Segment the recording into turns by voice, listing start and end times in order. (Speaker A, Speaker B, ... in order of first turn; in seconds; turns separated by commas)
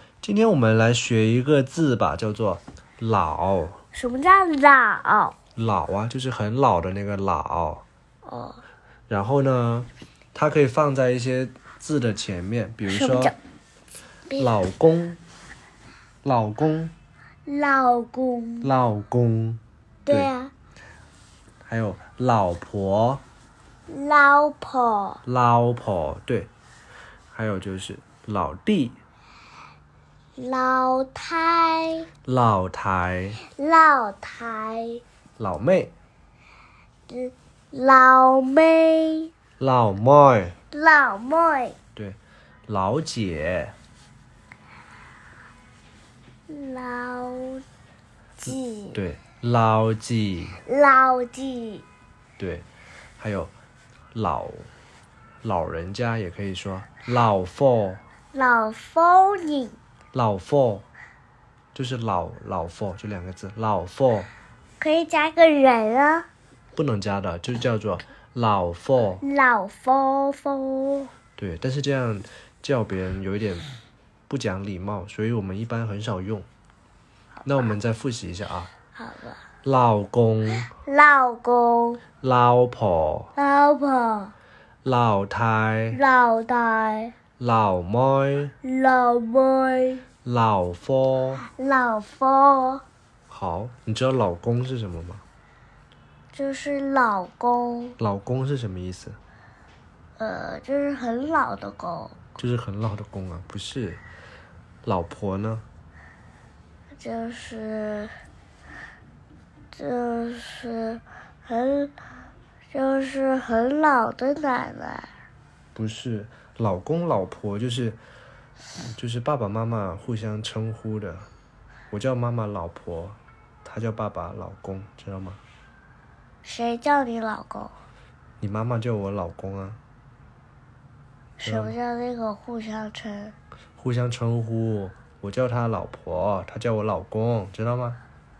Speaker A: 0.2-3.8, Speaker B: 3.9-5.3, Speaker A: 5.5-7.8, Speaker B: 8.2-8.6, Speaker A: 9.1-13.3, Speaker B: 12.8-13.3, Speaker A: 14.4-15.2, Speaker A: 16.2-16.9, Speaker B: 17.4-18.7, Speaker A: 18.6-20.3, Speaker B: 20.1-20.5, Speaker A: 21.6-23.2, Speaker B: 23.9-25.2, Speaker A: 25.2-26.5, Speaker A: 27.3-28.9, Speaker B: 30.4-32.1, Speaker A: 32.2-33.4, Speaker B: 33.4-35.0, Speaker A: 35.4-35.9, Speaker B: 37.1-39.3, Speaker A: 39.6-40.5, Speaker B: 40.7-41.8, Speaker A: 42.0-43.7, Speaker B: 46.5-47.6, Speaker B: 48.4-49.0, Speaker A: 48.5-50.6, Speaker B: 50.6-51.8, Speaker A: 52.4-52.6, Speaker A: 53.2-53.5, Speaker A: 54.1-54.7, Speaker A: 55.4-58.0, Speaker B: 58.3-59.8, Speaker A: 60.1-60.8, Speaker A: 61.7-64.3, Speaker B: 64.8-66.3, Speaker A: 66.8-69.2, Speaker B: 69.2-71.1, Speaker A: 71.4-73.7, Speaker A: 74.3-76.5, Speaker A: 77.4-78.7, Speaker B: 78.9-79.4, Speaker A: 79.6-80.7, Speaker B: 80.7-82.0, Speaker A: 82.2-83.3, Speaker B: 83.3-84.3, Speaker A: 84.8-86.0, Speaker B: 85.9-87.1, Speaker A: 87.4-88.5, Speaker B: 88.6-90.0, Speaker A: 90.2-91.4, Speaker B: 91.4-92.8, Speaker A: 93.3-95.2, Speaker B: 96.3-98.0, Speaker A: 98.0-99.2, Speaker B: 100.2-102.2, Speaker A: 102.4-104.0, Speaker A: 104.8-105.6, Speaker B: 107.0-108.2, Speaker B: 109.7-111.9, Speaker B: 112.7-115.1, Speaker A: 115.7-118.0, Speaker A: 118.9-121.3, Speaker A: 121.9-125.4, Speaker B: 126.4-127.7, Speaker A: 128.4-129.8, Speaker B: 131.4-133.3, Speaker A: 131.4-131.7, Speaker A: 133.8-138.0